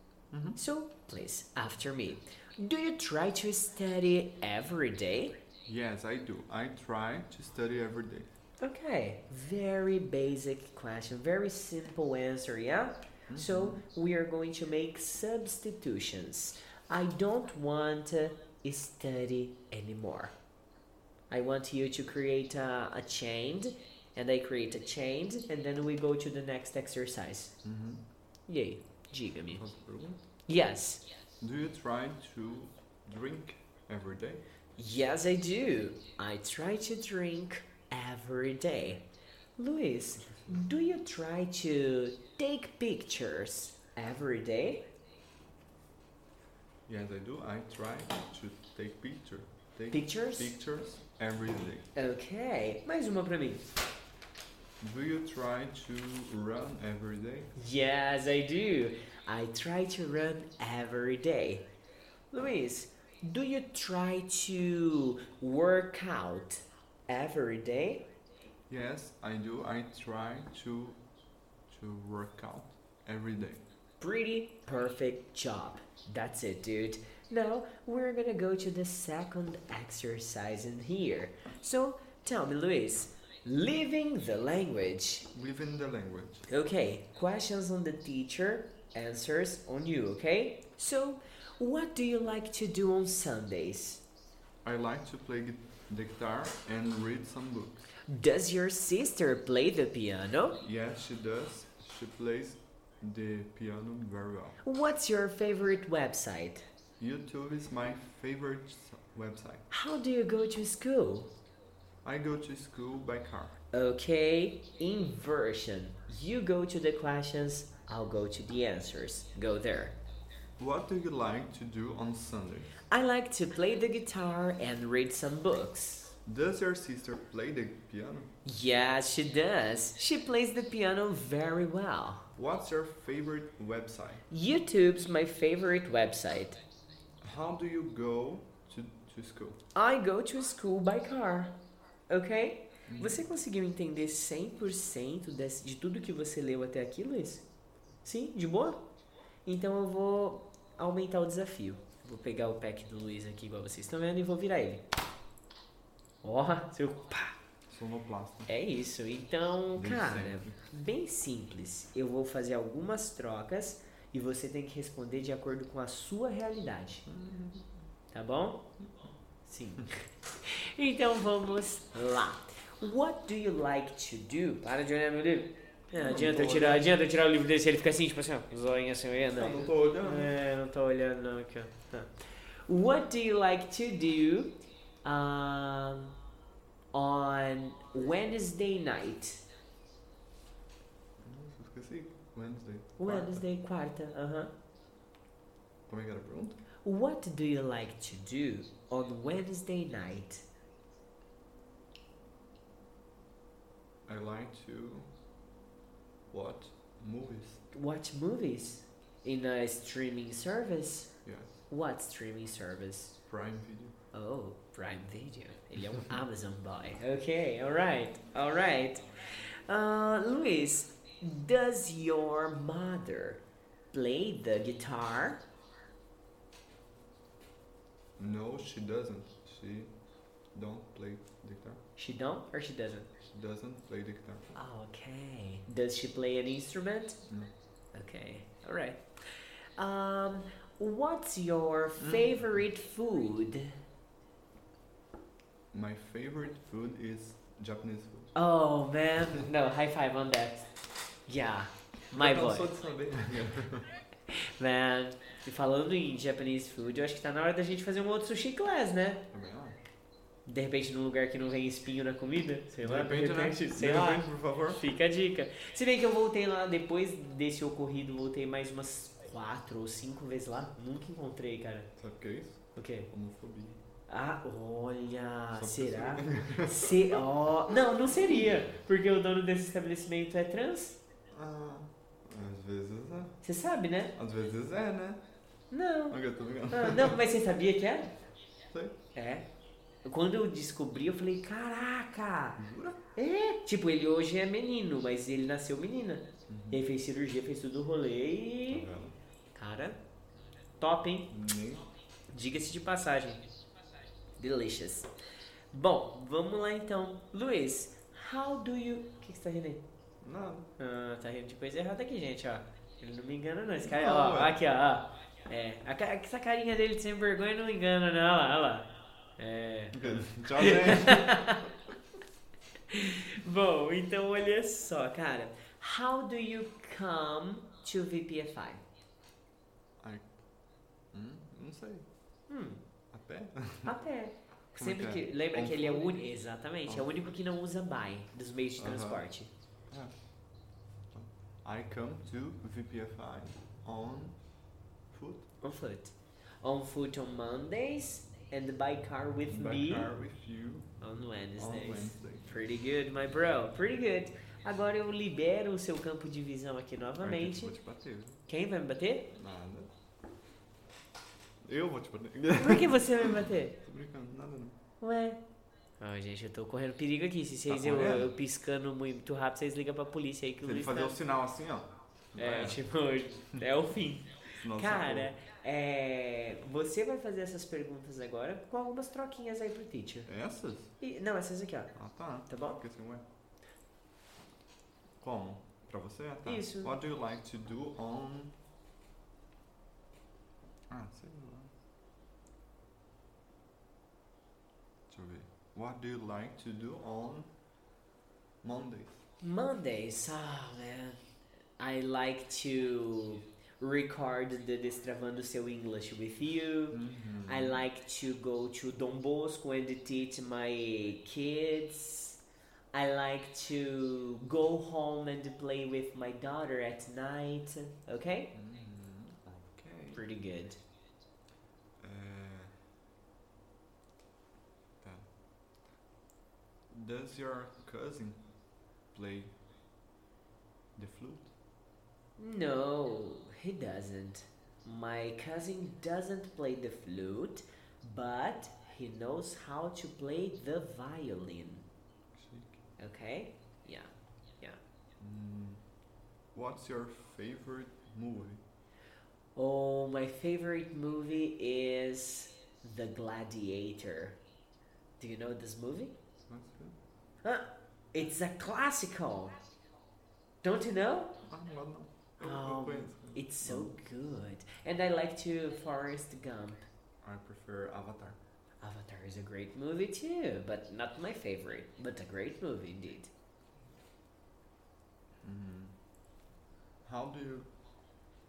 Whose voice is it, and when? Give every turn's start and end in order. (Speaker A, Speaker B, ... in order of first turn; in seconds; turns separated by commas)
Speaker A: 0.3-0.6, Speaker B: 0.6-5.3, Speaker A: 5.6-8.3, Speaker B: 8.6-20.3, Speaker A: 13.3-13.8, Speaker B: 21.3-27.6, Speaker A: 27.6-28.0, Speaker B: 28.5-29.6, Speaker A: 29.5-30.2, Speaker B: 30.5-31.0, Speaker A: 31.4-34.4, Speaker B: 34.8-39.0, Speaker B: 39.6-44.9, Speaker A: 46.9-51.9, Speaker B: 49.9-50.5, Speaker B: 51.9-53.7, Speaker A: 54.8-57.5, Speaker B: 57.5-61.6, Speaker B: 62.3-68.1, Speaker A: 68.7-71.0, Speaker A: 71.7-73.6, Speaker B: 74.0-85.3, Speaker A: 85.3-86.5, Speaker B: 86.5-94.0, Speaker A: 94.6-97.9, Speaker B: 98.0-100.6, Speaker A: 100.6-104.6, Speaker B: 104.6-106.7, Speaker A: 107.0-109.7, Speaker B: 109.7-111.3, Speaker A: 112.0-113.6, Speaker B: 113.7-120.0, Speaker A: 120.6-122.8, Speaker B: 122.9-126.2, Speaker A: 126.2-128.3, Speaker B: 128.4-132.3, Speaker A: 132.3-134.2, Speaker B: 134.3-136.6, Speaker A: 137.2-139.6, Speaker B: 139.7-141.5, Speaker B: 142.1-147.4, Speaker A: 142.9-143.2, Speaker B: 148.0-148.8, Speaker B: 149.4-154.8, Speaker B: 156.2-157.3, Speaker A: 157.7-158.5, Speaker B: 158.5-167.1, Speaker A: 159.8-160.6, Speaker A: 167.1-167.8, Speaker B: 168.1-168.7, Speaker A: 168.8-169.1, Speaker B: 169.4-184.5, Speaker A: 176.0-176.9, Speaker A: 179.3-180.3, Speaker B: 185.0-186.2, Speaker B: 186.9-189.4, Speaker A: 191.2-193.4, Speaker B: 193.0-194.5, Speaker A: 195.9-196.6, Speaker B: 196.8-200.4, Speaker A: 204.1-205.1, Speaker A: 206.3-207.6, Speaker B: 207.7-211.2, Speaker A: 211.2-211.5, Speaker B: 211.7-213.2, Speaker A: 213.3-213.9, Speaker B: 214.1-223.4, Speaker B: 223.9-225.4, Speaker A: 228.2-229.9, Speaker A: 230.5-231.8, Speaker B: 232.0-233.1, Speaker A: 233.3-234.6, Speaker B: 234.5-237.2, Speaker B: 237.9-243.8, Speaker A: 242.0-242.4, Speaker A: 245.7-248.3, Speaker B: 248.3-250.7, Speaker B: 251.3-252.7, Speaker A: 252.1-253.9, Speaker B: 254.3-259.2, Speaker A: 259.3-259.8, Speaker B: 260.4-271.9, Speaker A: 262.8-264.8, Speaker A: 272.0-273.8, Speaker B: 272.8-273.1, Speaker B: 274.1-281.0, Speaker A: 275.5-277.2, Speaker A: 281.3-283.4, Speaker B: 283.4-284.1, Speaker A: 284.1-285.2, Speaker B: 285.7-286.2, Speaker A: 286.1-287.2, Speaker B: 286.7-288.2, Speaker A: 288.7-289.0, Speaker B: 289.1-289.5, Speaker B: 290.0-292.6, Speaker A: 292.6-293.0, Speaker B: 293.1-298.9, Speaker A: 296.5-296.8, Speaker A: 298.7-299.1, Speaker B: 299.5-300.0, Speaker B: 300.8-301.3, Speaker A: 301.3-301.9, Speaker B: 302.3-303.4, Speaker B: 304.4-305.1, Speaker B: 305.7-309.8, Speaker A: 310.2-310.7, Speaker B: 310.8-321.7, Speaker A: 313.8-314.6, Speaker A: 319.9-321.6, Speaker B: 322.9-328.8, Speaker A: 330.0-330.4, Speaker A: 331.1-332.1, Speaker B: 332.5-332.8, Speaker A: 333.1-333.9, Speaker B: 333.8-339.5, Speaker A: 334.7-336.2, Speaker A: 336.9-337.1, Speaker A: 338.8-339.2, Speaker A: 341.1-344.4, Speaker A: 345.1-345.4, Speaker B: 345.6-350.1, Speaker A: 349.5-350.9, Speaker B: 351.0-357.7, Speaker A: 351.6-352.5, Speaker A: 357.2-358.4, Speaker B: 358.5-359.3, Speaker A: 359.3-359.9, Speaker A: 361.6-364.8, Speaker B: 362.6-363.7, Speaker B: 365.0-365.4, Speaker B: 366.0-371.2, Speaker A: 367.7-368.3, Speaker A: 370.6-372.8, Speaker B: 372.4-380.3, Speaker A: 374.5-375.3, Speaker A: 380.3-380.9, Speaker B: 381.0-381.9, Speaker A: 381.9-383.2, Speaker B: 382.5-382.8, Speaker A: 385.2-388.5, Speaker B: 386.4-386.9, Speaker A: 390.9-391.7, Speaker A: 395.1-397.5, Speaker A: 398.6-399.2, Speaker B: 399.4-401.2, Speaker B: 401.8-412.4, Speaker A: 406.9-407.8, Speaker B: 412.9-418.5, Speaker A: 418.5-420.2, Speaker B: 420.1-420.8, Speaker A: 422.0-422.7, Speaker A: 425.0-425.3, Speaker A: 426.9-428.4, Speaker A: 429.1-429.5, Speaker A: 430.9-431.5, Speaker B: 432.4-441.8, Speaker A: 442.3-442.8, Speaker B: 443.0-444.8, Speaker A: 445.2-445.8, Speaker A: 446.5-448.6, Speaker B: 449.6-454.4, Speaker B: 455.2-456.1, Speaker A: 456.5-457.0, Speaker B: 457.4-459.6, Speaker B: 460.6-461.4, Speaker A: 461.4-463.9, Speaker B: 462.4-466.9, Speaker A: 467.2-468.4, Speaker B: 468.8-473.3, Speaker A: 475.4-475.9, Speaker A: 477.0-477.7